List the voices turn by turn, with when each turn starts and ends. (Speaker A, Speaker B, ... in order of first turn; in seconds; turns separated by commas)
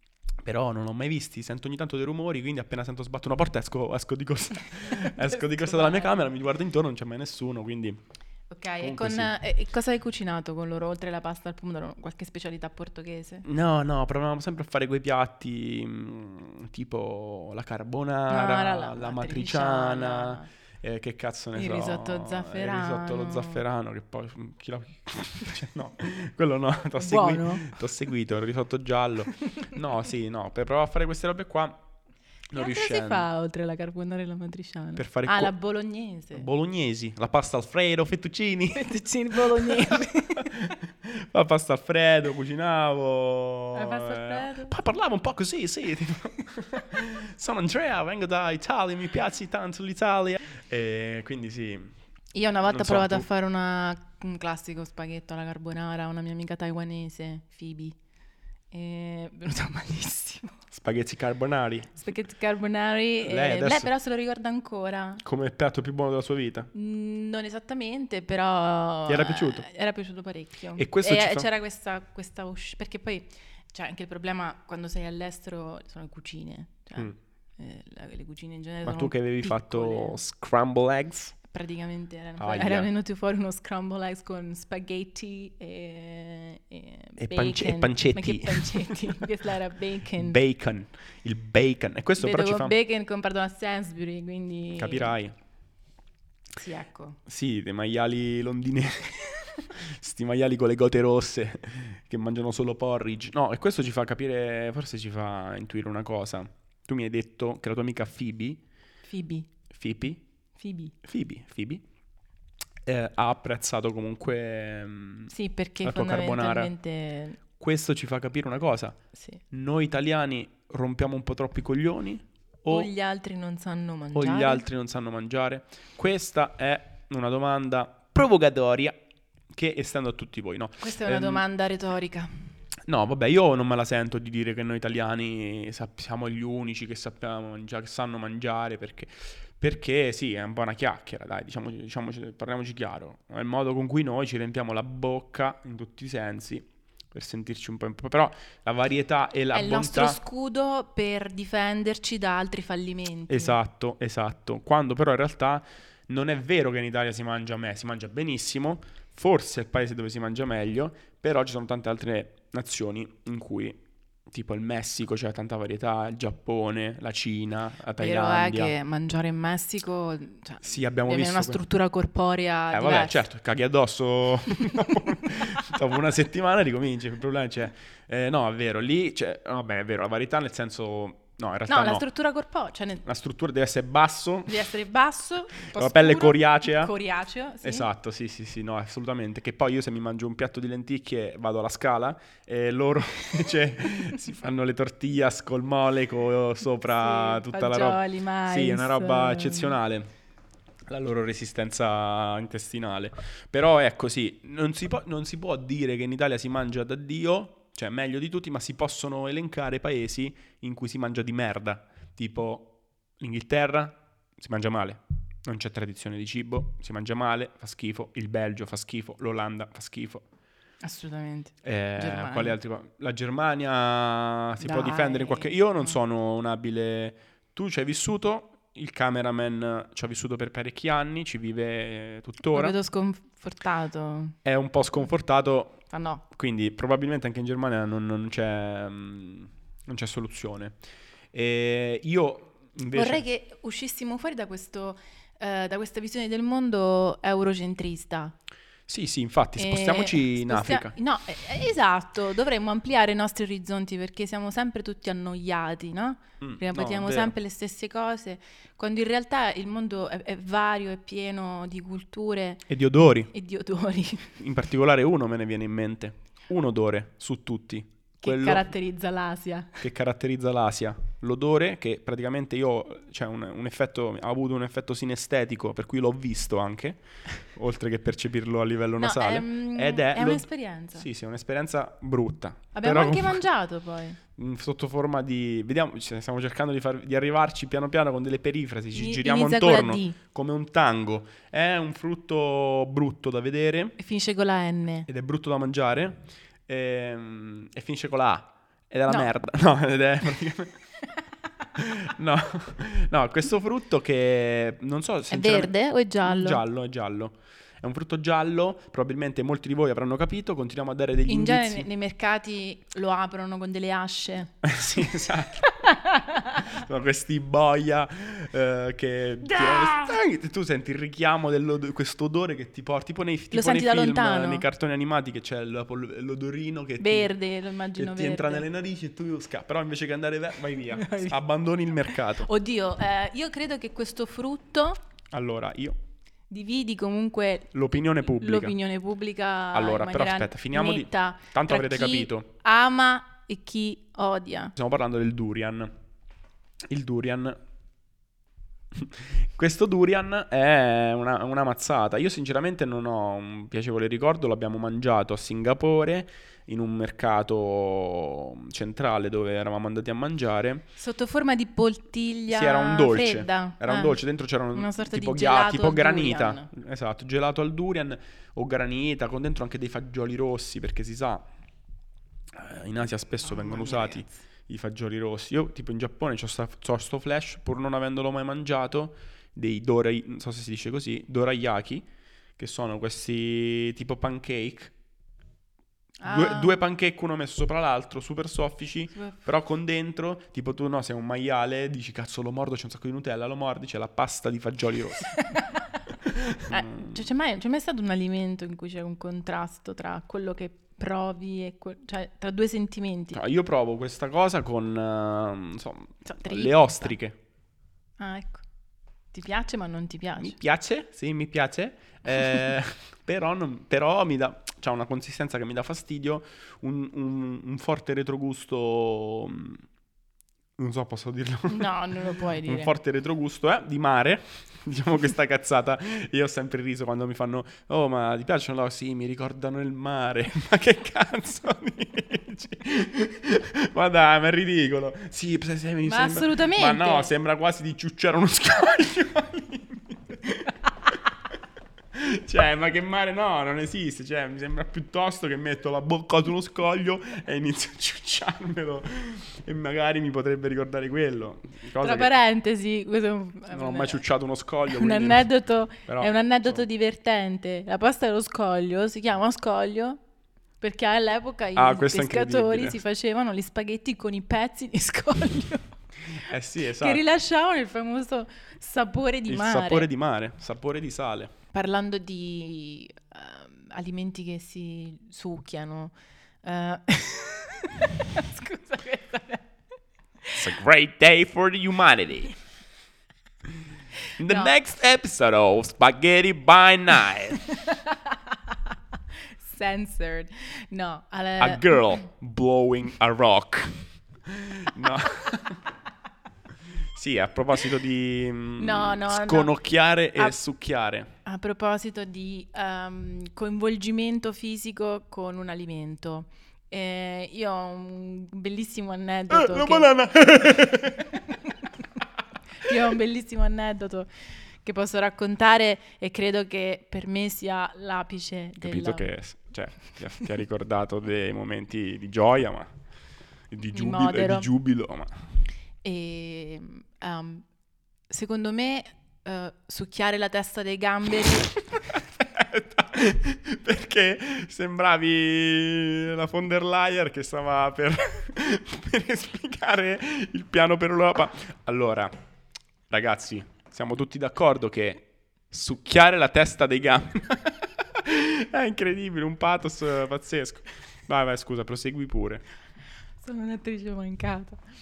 Speaker A: 0.4-8.0, Speaker B: 5.0-6.2, Speaker B: 8.5-13.5, Speaker A: 8.8-9.3, Speaker A: 13.4-31.8, Speaker B: 18.3-20.5, Speaker B: 21.6-23.6, Speaker B: 27.0-27.7, Speaker A: 32.5-33.3, Speaker B: 32.5-36.5, Speaker A: 35.0-35.5, Speaker A: 36.3-51.9, Speaker B: 38.7-40.8, Speaker B: 43.7-44.7, Speaker B: 52.3-58.0, Speaker A: 52.7-53.3, Speaker B: 58.7-60.6, Speaker A: 60.7-62.0, Speaker B: 62.0-65.2, Speaker A: 63.2-63.9, Speaker A: 65.2-66.7, Speaker B: 66.7-80.2, Speaker A: 69.1-69.7, Speaker A: 70.8-71.5, Speaker A: 78.8-81.4, Speaker B: 81.5-90.4, Speaker A: 82.4-82.9, Speaker A: 87.2-89.2, Speaker A: 90.2-92.8, Speaker B: 92.2-95.1, Speaker A: 94.8-95.3, Speaker B: 96.6-97.2, Speaker A: 97.3-108.6, Speaker B: 109.1-109.5, Speaker A: 109.7-110.2, Speaker B: 110.6-111.0, Speaker A: 111.0-111.8, Speaker A: 112.9-115.3, Speaker B: 115.3-117.4, Speaker A: 115.8-116.7, Speaker A: 117.6-119.0, Speaker B: 119.1-119.4, Speaker A: 119.5-122.9, Speaker B: 122.7-124.7, Speaker A: 124.1-129.0, Speaker A: 129.5-131.4, Speaker B: 130.8-132.5, Speaker A: 132.9-150.2, Speaker B: 149.5-153.6, Speaker A: 153.3-168.7, Speaker B: 168.0-173.2, Speaker A: 170.6-171.6, Speaker A: 172.7-182.1, Speaker B: 181.7-183.0, Speaker A: 183.1-184.6, Speaker B: 184.5-187.9, Speaker A: 185.7-186.9, Speaker A: 187.6-200.1, Speaker B: 196.9-199.8, Speaker A: 200.9-220.2, Speaker B: 220.8-222.6, Speaker A: 221.6-232.8, Speaker B: 224.6-226.0, Speaker B: 232.4-234.4, Speaker A: 234.4-240.8, Speaker B: 235.9-236.2, Speaker A: 241.3-243.2, Speaker B: 242.9-248.3, Speaker A: 248.9-250.9, Speaker B: 249.6-262.7, Speaker A: 256.4-257.3, Speaker A: 262.7-263.3, Speaker B: 263.3-264.4, Speaker A: 264.4-268.7, Speaker B: 268.2-269.8, Speaker A: 269.8-283.4, Speaker B: 279.0-281.1, Speaker B: 282.8-284.2, Speaker A: 284.4-294.0, Speaker B: 288.9-290.2, Speaker B: 294.0-295.1, Speaker A: 295.1-300.8, Speaker A: 301.8-311.9, Speaker B: 305.3-306.6, Speaker B: 311.3-314.6, Speaker A: 314.6-315.8, Speaker B: 315.8-316.7, Speaker A: 316.7-327.3, Speaker B: 319.6-320.1, Speaker B: 323.5-324.6, Speaker B: 327.0-328.7, Speaker A: 327.9-332.5, Speaker B: 330.9-331.4, Speaker B: 332.2-335.0, Speaker A: 335.3-336.0, Speaker B: 336.5-344.7, Speaker A: 337.7-338.8, Speaker A: 339.7-342.5, Speaker A: 344.8-345.9, Speaker A: 346.9-347.6, Speaker A: 348.9-360.9, Speaker B: 361.0-364.2, Speaker A: 362.5-371.5, Speaker B: 364.7-366.7, Speaker A: 372.5-384.9, Speaker B: 373.4-374.4, Speaker B: 386.2-386.8, Speaker A: 386.2-395.4, Speaker B: 389.1-389.4, Speaker B: 395.4-395.8, Speaker A: 396.2-397.2, Speaker B: 396.7-403.4, Speaker A: 403.3-407.4, Speaker B: 406.2-407.1, Speaker B: 408.2-408.6, Speaker B: 409.3-410.6, Speaker A: 410.4-419.8, Speaker A: 420.8-441.2, Speaker B: 421.7-422.9, Speaker B: 436.1-437.3, Speaker A: 442.1-452.3, Speaker B: 452.0-454.2, Speaker A: 453.7-455.5, Speaker B: 454.9-460.2, Speaker A: 456.1-456.8, Speaker B: 460.8-470.1, Speaker A: 461.8-463.0, Speaker A: 466.3-467.2, Speaker A: 469.5-471.5, Speaker B: 471.7-479.8, Speaker B: 480.4-480.7, Speaker A: 480.6-482.6, Speaker A: 484.4-487.6, Speaker B: 484.4-484.8, Speaker B: 487.7-488.8, Speaker B: 489.6-492.0, Speaker A: 491.6-495.8, Speaker A: 497.0-501.3, Speaker B: 498.8-499.8, Speaker B: 501.4-510.1, Speaker A: 509.5-511.5, Speaker B: 512.8-519.3, Speaker A: 518.8-522.9, Speaker A: 523.7-525.5, Speaker B: 523.9-524.7, Speaker B: 526.0-527.7, Speaker B: 528.3-531.7, Speaker A: 531.5-542.3, Speaker A: 543.1-552.6, Speaker B: 553.4-554.8